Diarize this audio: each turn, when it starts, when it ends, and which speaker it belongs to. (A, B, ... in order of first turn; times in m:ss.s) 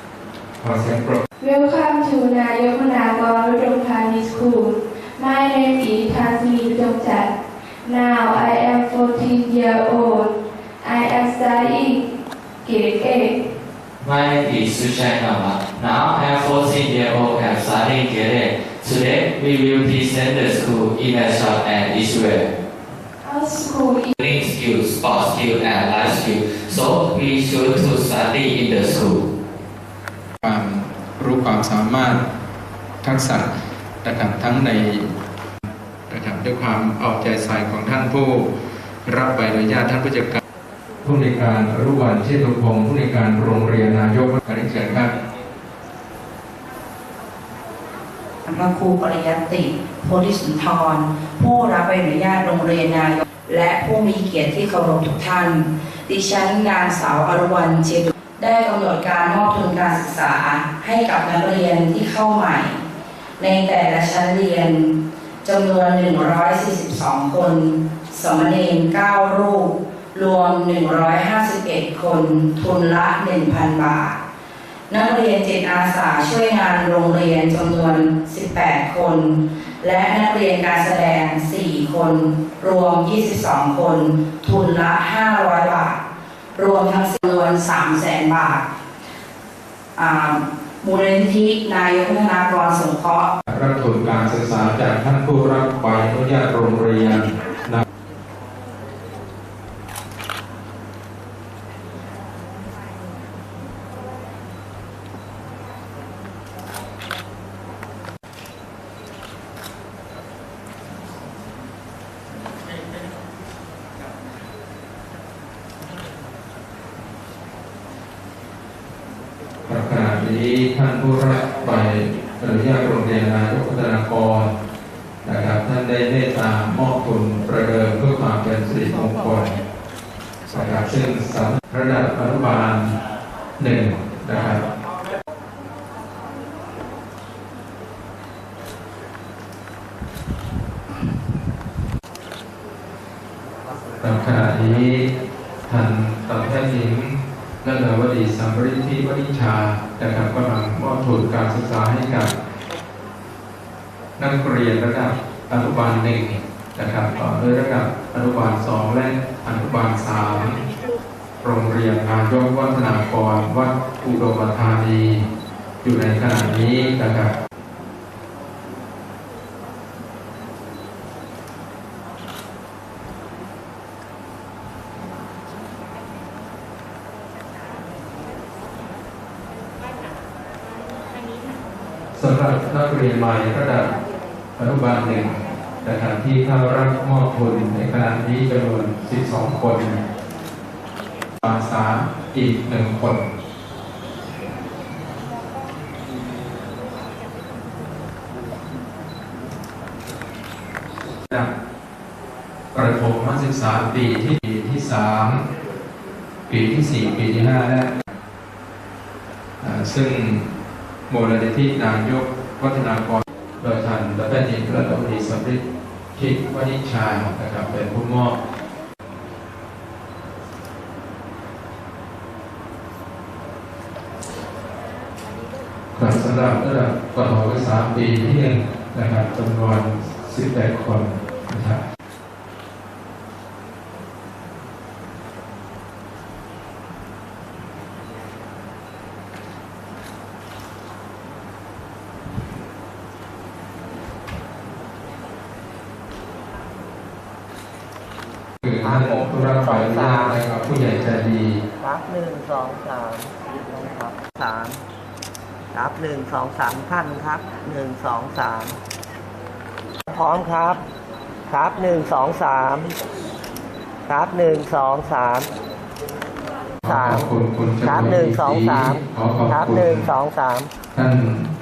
0:00.6-0:01.2 A
0:01.4-0:07.3 B
0:07.8-0:12.0 B
0:12.6-0:13.3 B
0:14.0-0:22.5 C
0:23.2-0:24.1 B
0:24.2-0:29.3 C
0:30.4-0:32.3 A
0:33.0-0:33.5 A
0:34.0-0:35.1 A
0:36.1-0:38.5 A
0:39.1-0:40.4 A
0:41.0-0:45.1 A
0:48.5-1:02.8 D
1:03.4-1:04.9 D
1:05.4-1:14.2 D
1:14.9-1:26.0 D
1:26.6-1:28.7 D
1:30.0-1:33.3 D
1:33.5-1:37.8 A
1:59.7-2:04.5 A
2:05.2-2:09.5 A
2:10.5-2:12.8 A
2:13.6-2:14.4 A
2:24.0-2:25.1 A
2:25.7-2:32.3 A
2:34.2-2:40.6 A
2:41.4-2:45.2 A
2:45.8-2:47.3 A
3:02.1-3:03.9 A
3:04.6-3:10.0 A
3:11.4-3:13.3 A
3:22.7-3:25.4 A
3:26.5-3:27.9 A
3:29.6-3:30.5 A
3:31.1-3:35.6 A
3:36.1-3:38.4 A
3:46.0-3:51.8 A
4:08.6-4:11.6 A
4:08.8-4:10.4 E
4:11.8-4:14.8 E
4:15.7-4:18.8 E
4:20.1-4:20.8 E
4:21.5-4:22.9 E
4:24.1-4:25.5 E
4:26.8-4:27.3 E
4:27.0-4:30.0 A
4:27.8-4:30.7 E